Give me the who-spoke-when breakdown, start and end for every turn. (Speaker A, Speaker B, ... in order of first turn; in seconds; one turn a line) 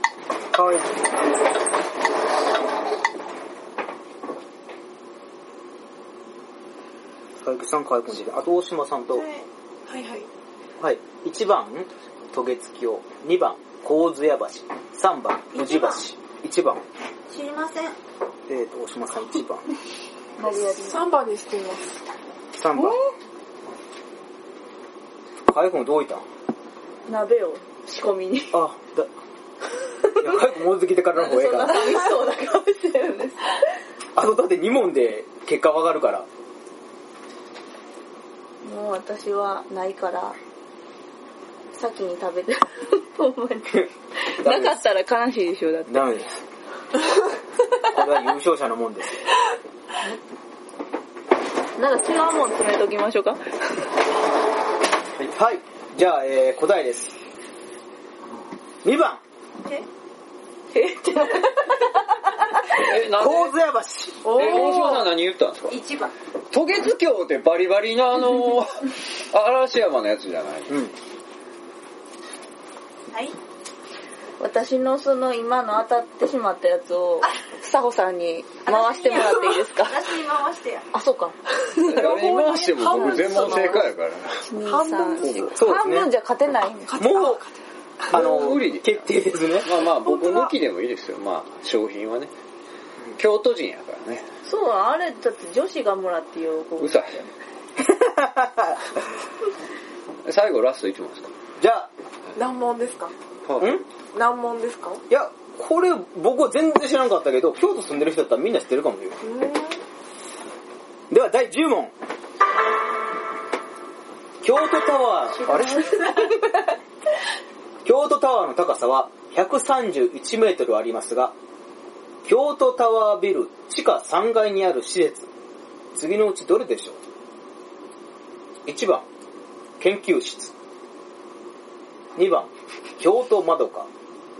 Speaker A: 0.5-1.1
Speaker A: 7.4-9.2
Speaker B: 9.9-10.3
Speaker A: 10.8-16.8
Speaker C: 15.5-16.0
Speaker C: 17.3-18.0
Speaker A: 18.5-19.6
Speaker D: 20.4-21.1
Speaker B: 20.4-22.0
Speaker A: 22.5-23.0
Speaker A: 25.5-26.2
Speaker D: 27.1-28.6
Speaker A: 28.5-29.1
Speaker A: 30.2-32.0
Speaker D: 31.1-33.5
Speaker A: 34.1-36.3
Speaker D: 38.6-40.4
Speaker D: 41.7-46.1
Speaker A: 44.4-44.8
Speaker A: 45.9-46.4
Speaker A: 47.9-49.2
Speaker D: 51.8-53.4
Speaker A: 55.2-57.1
Speaker A: 58.8-59.2
Speaker D: 60.7-62.6
Speaker E: 62.7-63.5
Speaker A: 63.1-64.4
Speaker B: 64.2-65.0
Speaker E: 64.2-65.8
Speaker C: 65.7-66.1
Speaker E: 66.5-70.8
Speaker C: 73.1-73.4
Speaker D: 74.4-80.1
Speaker C: 78.6-80.9
Speaker D: 80.9-83.8
Speaker E: 81.8-84.4
Speaker B: 82.0-83.9
Speaker D: 84.4-87.2
Speaker B: 84.6-85.6
Speaker A: 85.5-86.1
Speaker B: 86.9-88.2
Speaker A: 87.0-87.4
Speaker E: 88.1-89.0
Speaker A: 88.1-89.7
Speaker E: 89.6-92.3
Speaker B: 90.0-90.5
Speaker E: 93.2-94.3
Speaker D: 94.4-97.3
Speaker E: 96.8-97.1
Speaker A: 97.8-98.8
Speaker E: 100.2-101.3
Speaker A: 101.6-101.9
Speaker B: 102.3-103.1
Speaker E: 103.5-103.7
Speaker A: 103.6-103.8
Speaker B: 104.1-105.0
Speaker A: 105.1-109.2
Speaker B: 109.2-109.8
Speaker A: 111.1-111.9
Speaker A: 114.4-116.1
Speaker C: 115.8-116.2
Speaker A: 117.8-121.3
Speaker A: 122.2-125.3
Speaker A: 125.9-127.0
Speaker A: 128.7-129.1
Speaker A: 129.8-130.5
Speaker A: 132.2-133.9